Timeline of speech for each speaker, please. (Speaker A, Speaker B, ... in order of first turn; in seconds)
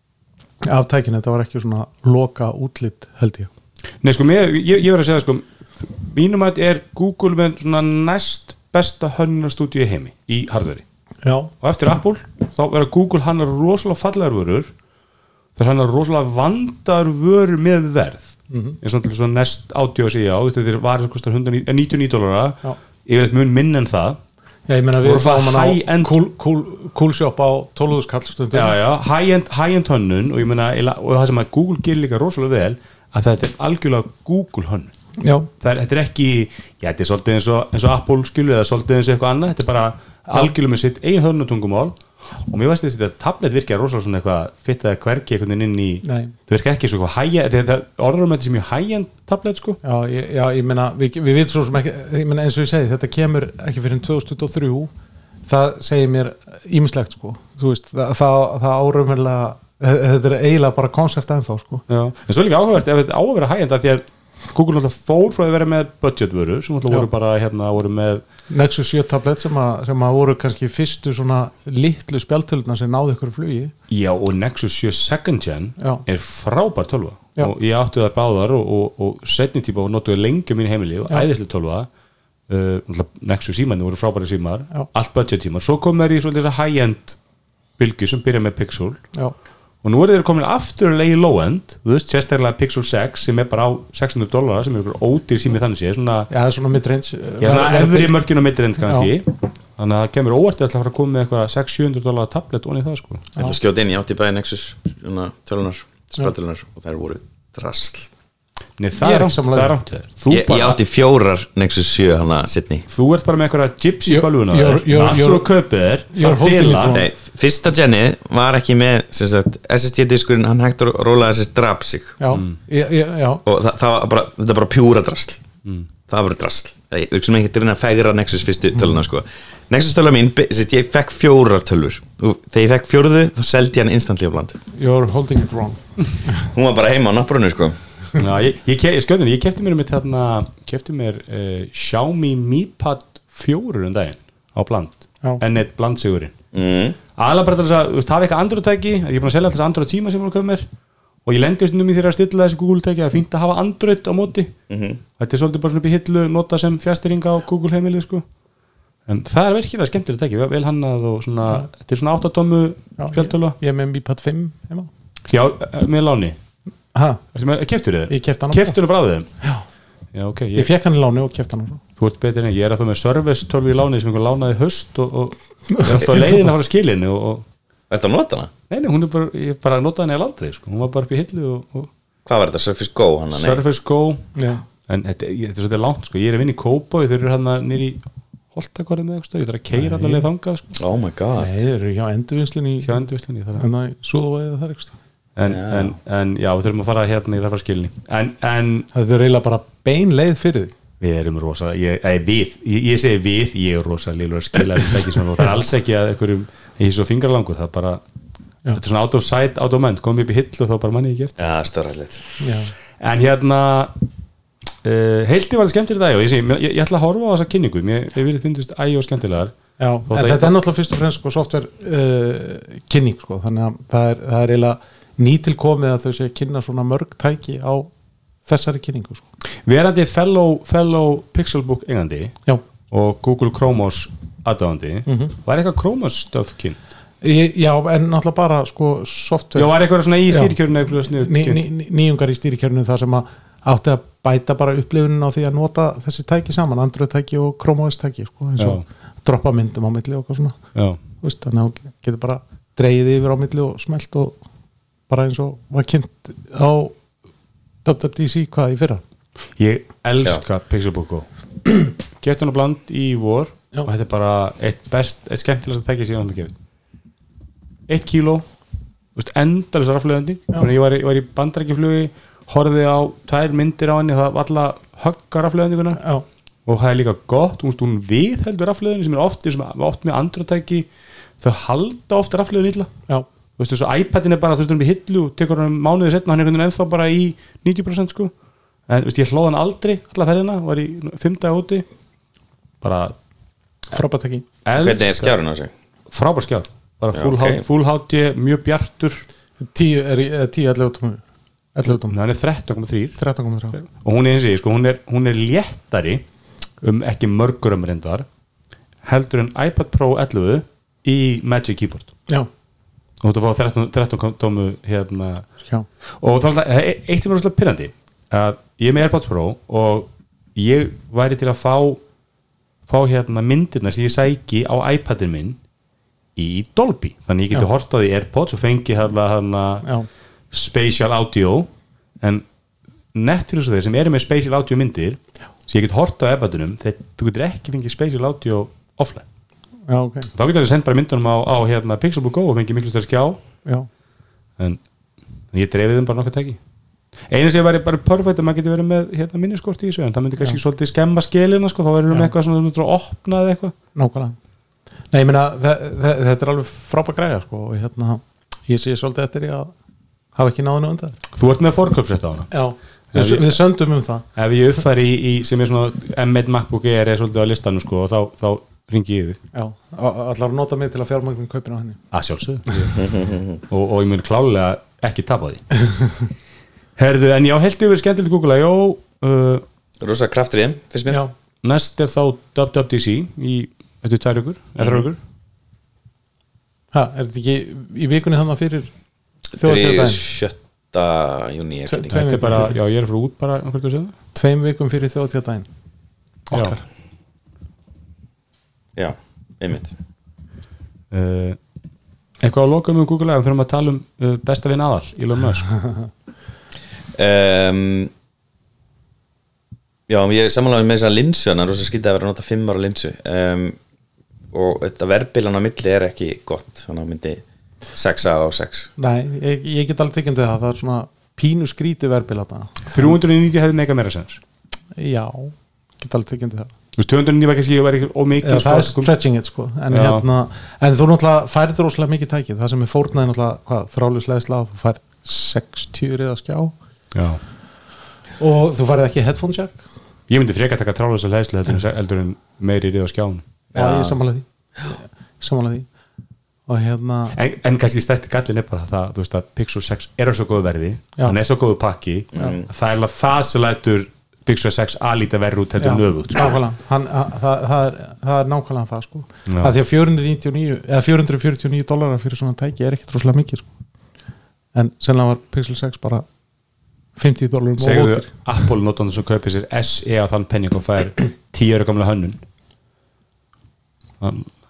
Speaker A: 0.6-3.5, 11.2-11.5, 18.5-18.8, 24.7-28.8, 35.2-35.5, 46.0-46.3, 49.8-54.9, 55.5-61.8, 68.5-73.7, 75.8-76.0, 96.3-98.2, 98.8-99.1, 109.0-109.8, 114.0-115.5, 116.1-117.1, 122.2-123.4, 134.7-136.4, 163.0-164.9, 166.9-167.2, 168.1-168.8, 170.5-171.8, 175.7-176.5, 184.3-184.6, 189.7-190.3, 191.3-193.0, 193.6-194.9, 198.9-200.7, 212.4-212.7, 219.8-227.9, 228.4-229.2, 235.1-235.3, 237.2-239.7, 240.3-250.6, 251.2-254.4, 255.1-256.9, 257.8-259.0, 276.0-276.2, 293.9-294.4, 299.6-301.2, 301.7-302.2, 303.1-303.8, 339.9-340.3, 353.9-354.4, 355.1-359.7, 360.3-361.2, 362.5-364.2, 369.5-372.0, 381.1-381.3, 386.9-388.9, 389.6-390.2, 391.9-392.8, 394.3-395.7, 396.5-396.8, 419.0-423.1, 424.9-426.7, 428.4-436.7, 438.4-439.8, 443.7-445.9, 446.7-447.4, 455.8-463.7, 464.7-466.2, 467.1-468.3
Speaker B: 4.0-10.8, 11.6-14.7, 15.6-24.2, 25.0-26.1, 28.5-34.9, 35.6-49.8, 61.9-68.2, 73.9-81.9, 82.5-87.2, 87.8-89.0, 89.8-96.3, 97.4-103.3, 108.8-110.8, 112.9-117.0, 122.3-122.5, 138.2-146.3, 147.2-150.7, 151.2-154.5, 155.2-158.2, 159.1-163.6, 165.3-166.4, 167.3-169.3, 170.1-170.7, 172.0-177.4, 178.7-181.9, 183.3-184.3, 184.8-188.0, 188.5-190.7, 192.8-193.6, 195.3-198.9, 201.0-208.0, 208.7-211.4, 213.0-213.9, 214.8-219.6, 220.1-220.5, 229.6-232.3, 232.9-236.8, 239.6-241.6, 248.6-248.8, 250.7-251.0, 259.6-261.3, 262.2-266.5, 267.9-268.4, 269.1-276.0, 276.6-280.9, 281.4-282.9, 283.6-288.3, 288.9-291.8, 292.8-293.1, 294.6-295.3, 296.1-299.2, 302.1-303.2, 303.7-306.2, 306.8-308.2, 309.0-312.1, 313.2-315.5, 316.2-322.0, 322.9-325.6, 326.4-329.9, 330.5-331.7, 333.1-339.2, 340.3-343.4, 345.5-346.6, 347.3-353.7, 361.3-362.5, 363.1-363.6, 364.3-369.4, 372.1-372.9, 373.7-375.6, 377.0-379.6, 381.6-385.2, 392.1-394.1, 396.5-396.8, 401.1-401.6, 402.4-405.7, 422.9-424.4, 426.9-429.1, 429.9-430.2, 437.1-437.4, 440.3-443.4, 447.3-456.6, 459.5-459.7, 467.8-472.4, 474.2-474.5
Speaker C: 103.4-108.1, 110.3-112.8, 116.9-122.2, 123.5-125.4, 126.1-134.6, 136.4-137.8, 146.5-147.0, 154.7-155.0, 177.9-178.5, 182.2-183.6, 190.8-191.6, 195.4-195.9, 211.4-212.2, 294.7-295.7, 297.1-297.6, 372.9-373.6, 380.0-381.2, 389.6-392.4, 398.9-399.9, 407.1-408.1, 410.1-413.8, 414.5-417.4, 417.9-418.9, 443.8-444.1, 452.3-452.6